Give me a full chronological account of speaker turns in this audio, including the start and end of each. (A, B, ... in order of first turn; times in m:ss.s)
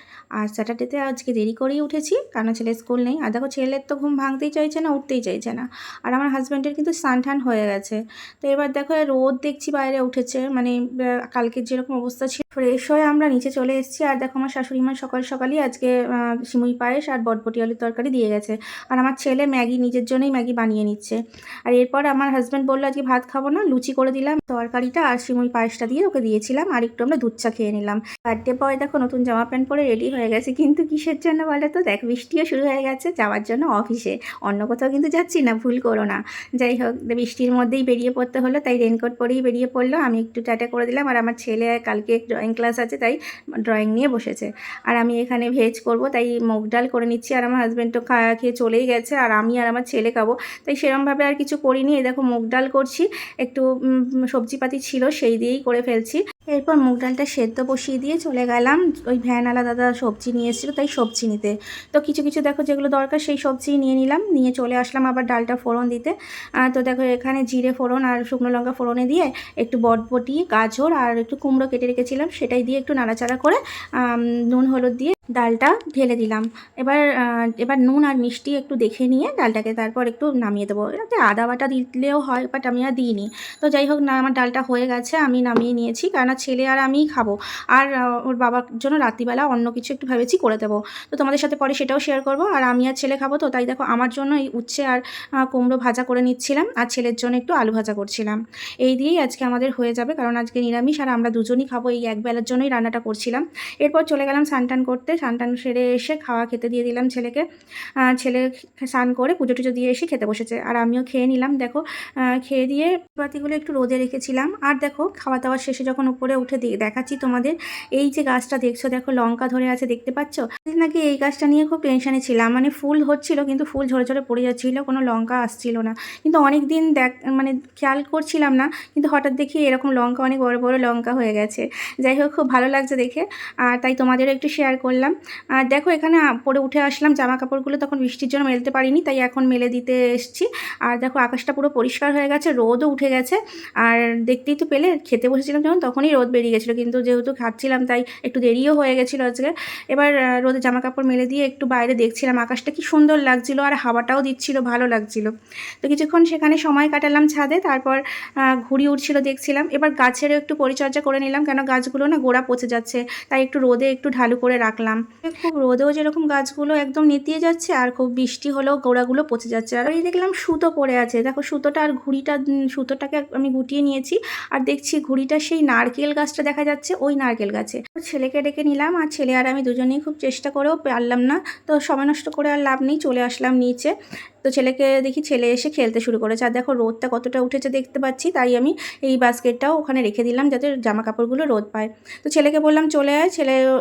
0:00.4-0:10.7 A
0:11.3-0:15.9 A
0:16.5-0:43.2 A
0:43.7-0:53.6 A
0:54.3-1:06.1 A
1:06.6-1:17.0 A
1:17.6-1:35.0 A
1:35.5-1:47.4 A
1:48.1-1:51.8 A
1:52.4-2:15.1 A
2:15.6-2:35.3 A
2:35.8-2:38.0 A
2:38.6-3:03.9 A
3:04.4-3:13.5 A